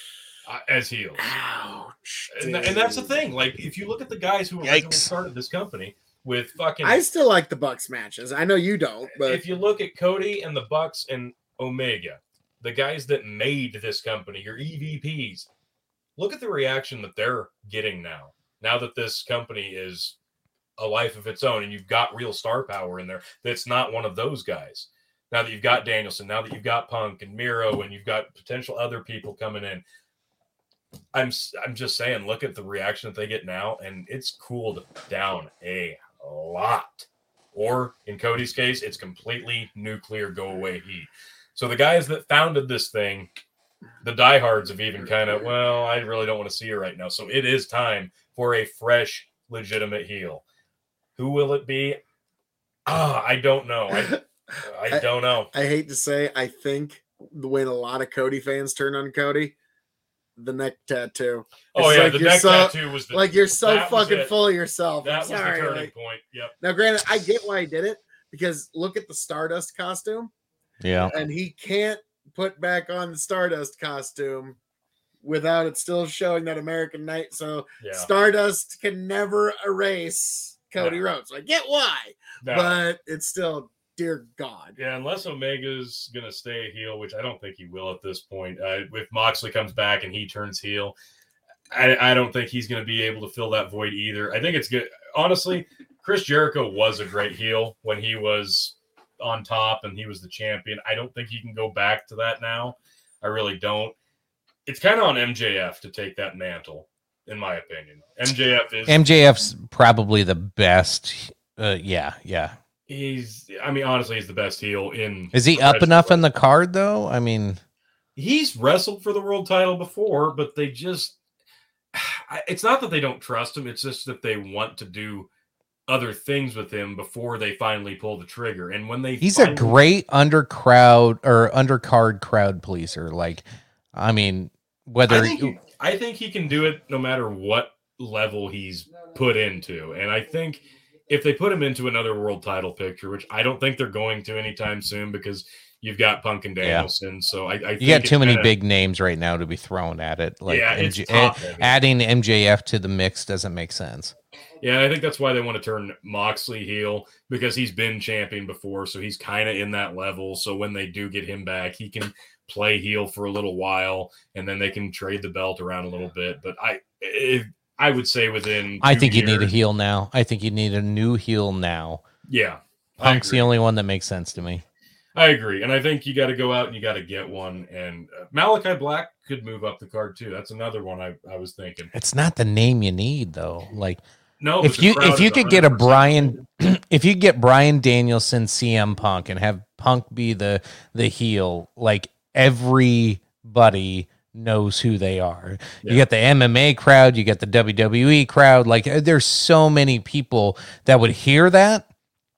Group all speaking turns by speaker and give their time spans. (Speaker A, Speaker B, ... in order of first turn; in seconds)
Speaker A: 0.5-1.2, 2.3-7.0, 9.1-15.5, 16.2-20.2, 20.8-29.8, 31.1-43.3, 44.0-50.4, 51.2-52.0, 52.9-55.5, 61.7-64.3, 65.0-66.5, 70.9-71.2, 77.8-78.1, 82.4-82.8, 84.8-91.0, 91.7-104.0, 104.7-109.1, 112.9-116.2, 118.2-121.2, 121.9-125.3, 125.9-129.8, 135.1-148.5, 150.5-151.7, 154.6-169.5, 172.3-173.5, 175.2-181.9, 184.4-186.4
Speaker B: 1.2-3.2, 6.8-9.4, 53.9-54.2, 54.9-59.5, 60.4-65.9, 66.6-70.3, 71.1-74.6, 75.2-84.8
Speaker C: 4.6-5.1, 70.8-71.1, 108.9-112.6, 115.3-117.6, 129.2-135.6, 146.6-146.9, 147.8-154.1, 168.8-172.0, 173.0-174.6, 181.9-184.0, 184.6-201.9